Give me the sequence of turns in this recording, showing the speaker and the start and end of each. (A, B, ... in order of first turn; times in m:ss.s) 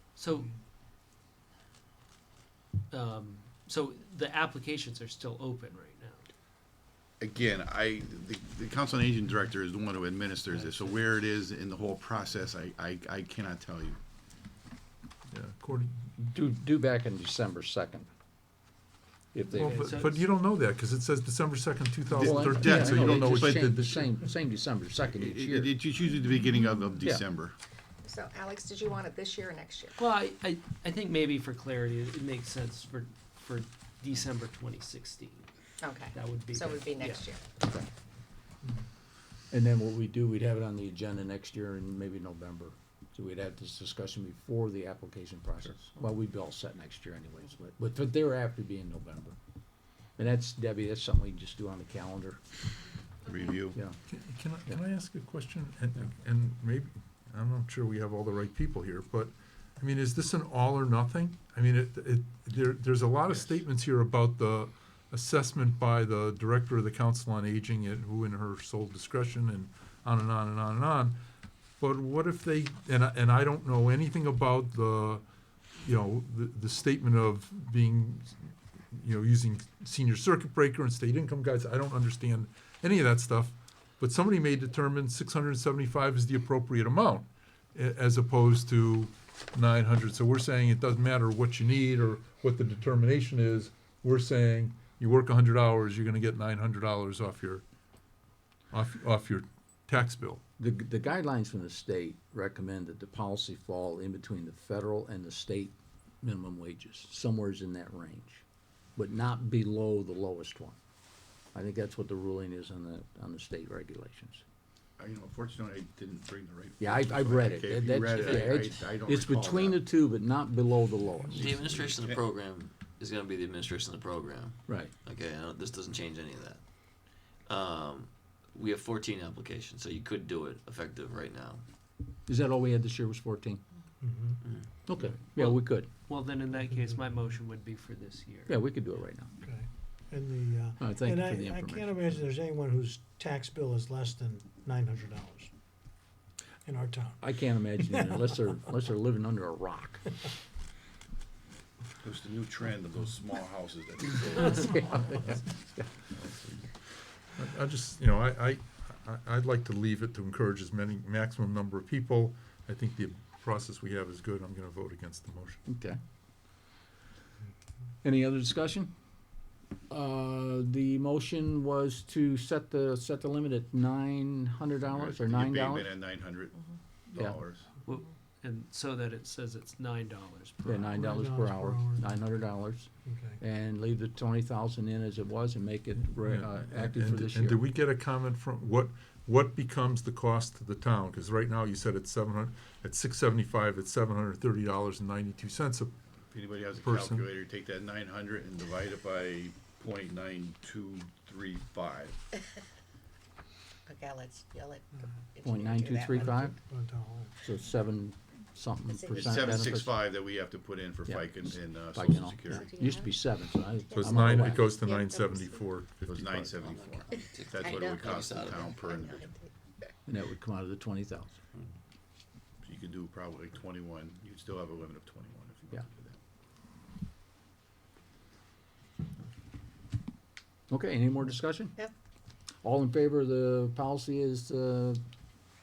0:00.2-0:00.5 A
0:00.3-0:00.6 B
0:02.9-0:06.2 A
0:07.2-0:14.0 C
0:10.5-0:11.2 A
0:15.3-0:16.0 D
0:16.2-0:18.1 E
0:19.3-0:19.9 E
0:19.5-0:24.0 D
0:19.6-0:20.3 A
0:22.1-0:25.8 E
0:22.2-0:24.1 C
0:25.0-0:27.6 C
0:28.0-0:30.0 F
0:30.0-0:35.5 A
0:35.8-0:37.4 F
0:36.1-0:37.3 A
0:39.5-0:49.4 E
0:50.2-0:52.4 E
0:53.3-0:53.8 C
0:54.1-1:11.2 D
1:11.8-1:15.2 D
1:15.8-1:37.6 D
1:38.7-1:40.4 D
1:40.6-1:48.4 E
1:49.0-1:50.8 E
1:51.5-1:54.4 E
1:55.0-1:59.8 C
1:56.8-2:01.9 E
1:58.2-1:58.5 A
2:01.3-2:06.6 G
2:04.7-2:04.9 E
2:07.5-2:11.6 G
2:12.3-2:13.6 E
2:14.0-2:14.4 B
2:14.9-2:15.9 E
2:15.4-2:18.6 A
2:16.5-2:17.4 B
2:18.5-2:19.3 E
2:19.4-2:25.5 B
2:20.8-2:22.3 E
2:26.6-2:28.1 B
2:27.2-2:30.1 E
2:32.0-2:34.8 C
2:34.4-2:35.9 E
2:36.0-2:36.7 C
2:37.3-2:45.6 D
2:45.7-2:46.0 E
2:48.0-2:48.9 E
2:49.9-2:55.9 E
2:54.9-2:57.7 C
2:57.9-3:01.0 A
3:00.6-3:07.7 E
3:00.9-3:02.1 B
3:03.0-3:03.4 B
3:06.2-3:15.9 D
3:16.3-3:22.2 C
3:16.8-3:17.3 D
3:23.9-3:26.6 F
3:25.4-3:26.6 E
3:26.3-3:27.4 B
3:27.4-3:29.9 E
3:28.9-3:29.7 F
3:29.1-3:32.7 C
3:31.1-3:34.7 E
3:32.5-3:33.2 F
3:33.8-3:35.7 F
3:33.9-3:36.8 D
3:36.0-3:39.3 C
3:36.6-3:39.0 G
3:37.6-3:39.5 F
3:40.1-3:41.3 E
3:42.6-3:46.2 C
3:50.7-3:51.8 E
3:52.6-3:55.0 E